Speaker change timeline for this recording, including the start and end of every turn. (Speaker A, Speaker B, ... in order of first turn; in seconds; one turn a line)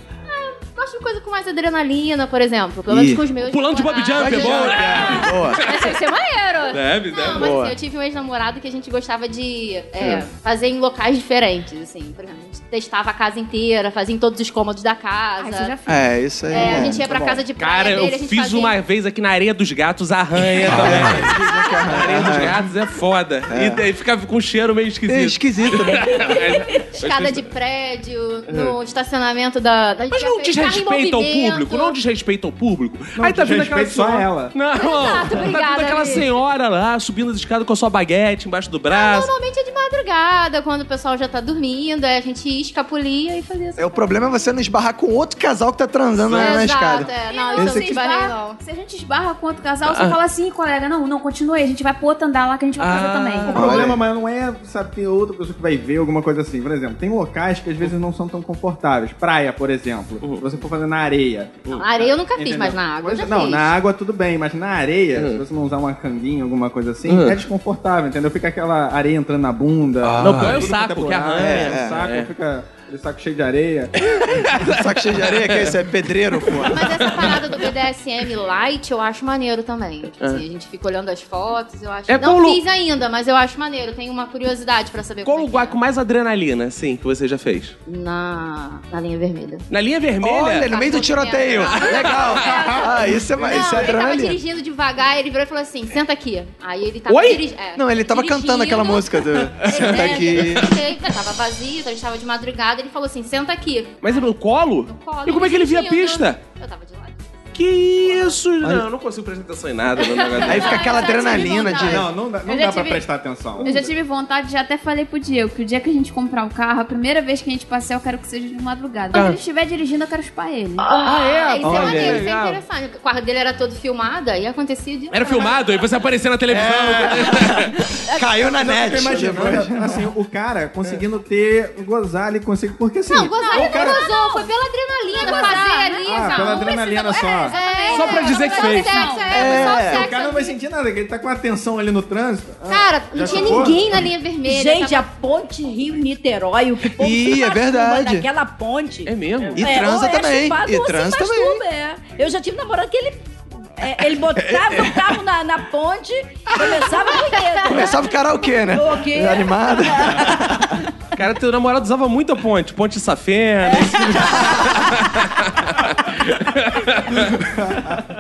Speaker A: 0.3-15.8
Speaker B: 2.9-3.2
Speaker C: 3.4-5.9
Speaker B: 4.2-5.6
Speaker C: 6.7-7.6
Speaker B: 7.3-7.8
Speaker D: 15.4-16.9
Speaker B: 15.9-17.4
Speaker A: 16.5-18.8
Speaker C: 17.6-27.5
Speaker B: 20.6-22.6
Speaker B: 23.5-23.9
Speaker B: 25.1-26.4
Speaker A: 26.9-32.0
Speaker C: 28.5-28.8
Speaker C: 30.1-39.3
Speaker E: 33.2-34.5
Speaker A: 34.7-36.4
Speaker A: 38.9-44.2
Speaker B: 43.8-47.9
Speaker C: 46.2-46.8
Speaker A: 46.3-48.6
Speaker D: 47.2-53.6
Speaker C: 49.9-50.2
Speaker C: 52.8-53.6
Speaker E: 53.5-73.9
Speaker B: 53.5-54.0
Speaker A: 61.8-63.8
Speaker C: 65.2-65.4
Speaker C: 67.1-67.4
Speaker C: 70.2-72.3
Speaker B: 71.4-72.0
Speaker C: 74.0-75.8
Speaker B: 74.5-77.0
Speaker C: 76.5-77.5
Speaker A: 76.7-85.8
Speaker C: 82.1-82.6
Speaker C: 85.2-87.8
Speaker A: 87.9-89.7
Speaker C: 89.7-90.8
Speaker B: 90.2-94.4
Speaker A: 90.5-104.3
Speaker C: 91.4-92.8
Speaker C: 97.1-97.4
Speaker B: 97.8-100.7
Speaker C: 99.6-100.7
Speaker C: 104.0-106.4
Speaker A: 104.9-108.4
Speaker C: 107.5-110.9
Speaker A: 110.0-111.1
Speaker B: 110.5-112.1
Speaker D: 110.5-113.1
Speaker E: 111.9-113.9
Speaker D: 113.6-120.9
Speaker C: 119.1-119.4
Speaker A: 120.9-125.6
Speaker C: 121.0-122.6
Speaker E: 121.6-122.3
Speaker C: 125.1-127.8
Speaker B: 126.5-130.0
Speaker E: 128.5-134.0
Speaker A: 133.1-136.7
Speaker D: 133.3-134.5
Speaker D: 135.1-139.6
Speaker E: 136.1-137.6
Speaker A: 137.4-140.6
Speaker C: 137.9-139.2
Speaker B: 139.3-140.1
Speaker E: 139.4-144.0
Speaker A: 142.7-145.1
Speaker F: 144.4-158.1
Speaker B: 146.8-148.3
Speaker C: 149.1-149.6
Speaker B: 149.6-151.6
Speaker B: 154.3-155.2
Speaker B: 157.7-160.8
Speaker F: 158.7-160.8
Speaker C: 161.2-167.5
Speaker F: 163.7-164.5
Speaker E: 167.5-168.0